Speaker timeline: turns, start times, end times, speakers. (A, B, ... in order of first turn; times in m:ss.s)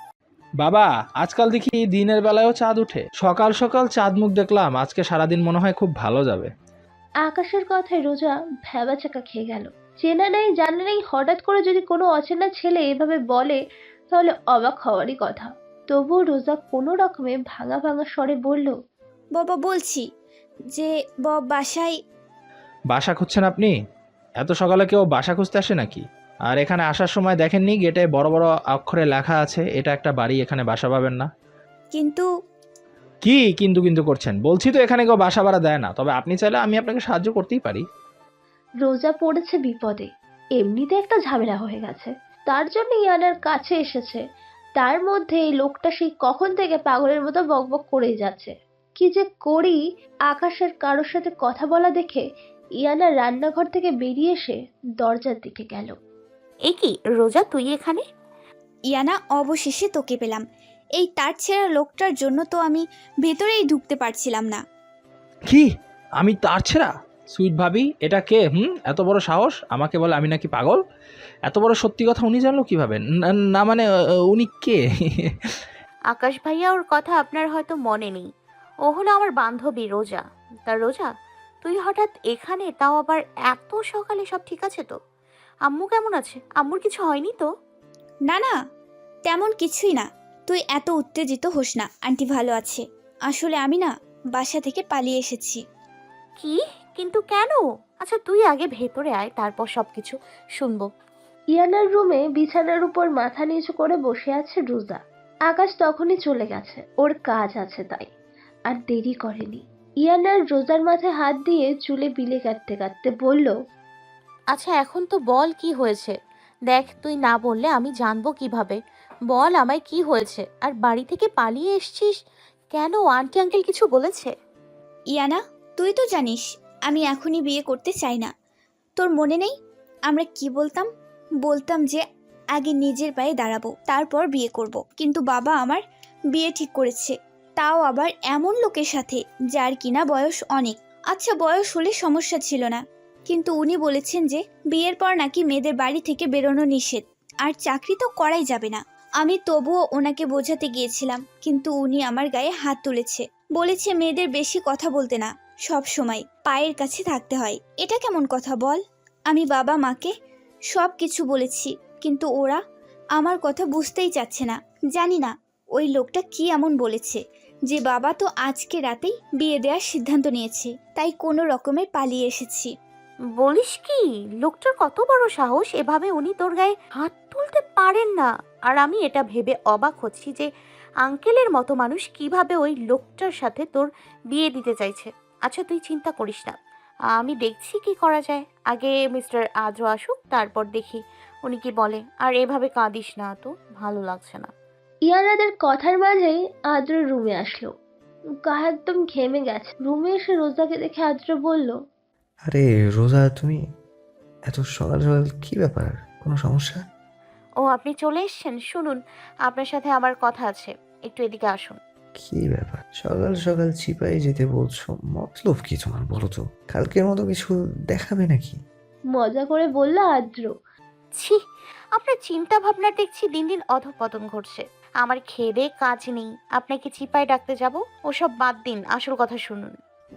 0:00.6-0:06.5 A
0:07.2-0:13.6 B
0:14.1-0:18.7 B
0:19.4-0:20.0 C
0:20.7-0:21.9 C
0:22.9-0:23.7 A
0:24.4-0:31.3 A
0:31.9-0:32.3 C
0:33.2-0:37.8 A
0:38.8-0:44.2 B
0:44.8-0:52.2 B
0:52.8-0:55.9 B
0:56.7-0:58.0 D
0:58.9-1:00.4 C
1:01.0-1:04.6 C
1:06.2-1:10.8 A
1:11.5-1:13.0 A
1:13.5-1:14.8 A
1:16.1-1:18.3 D
1:18.8-1:21.1 D
1:21.6-1:25.0 D
1:25.7-1:27.5 D
1:28.3-1:28.6 C
1:29.2-1:35.6 C
1:36.4-1:40.9 D
1:41.5-1:48.1 B
1:48.7-1:53.5 B
1:54.5-1:56.2 D
1:56.7-1:58.8 D
1:59.3-2:02.2 D
2:02.7-2:04.3 D
2:05.1-2:08.3 C
2:09.0-2:09.5 C
2:10.1-2:10.9 C
2:11.4-2:12.0 C
2:12.6-2:15.8 C
2:16.3-2:40.1 C
2:40.7-2:42.6 C
2:43.2-2:52.7 C
2:53.4-3:00.5 D
3:01.0-3:06.6 D
3:07.2-3:14.5 D
3:15.1-3:17.7 B
3:18.4-3:21.8 B
3:22.5-3:23.6 E
3:24.5-3:26.8 E
3:27.6-3:31.8 D
3:32.2-3:38.6 E
3:39.1-3:40.5 B
3:42.0-3:49.8 D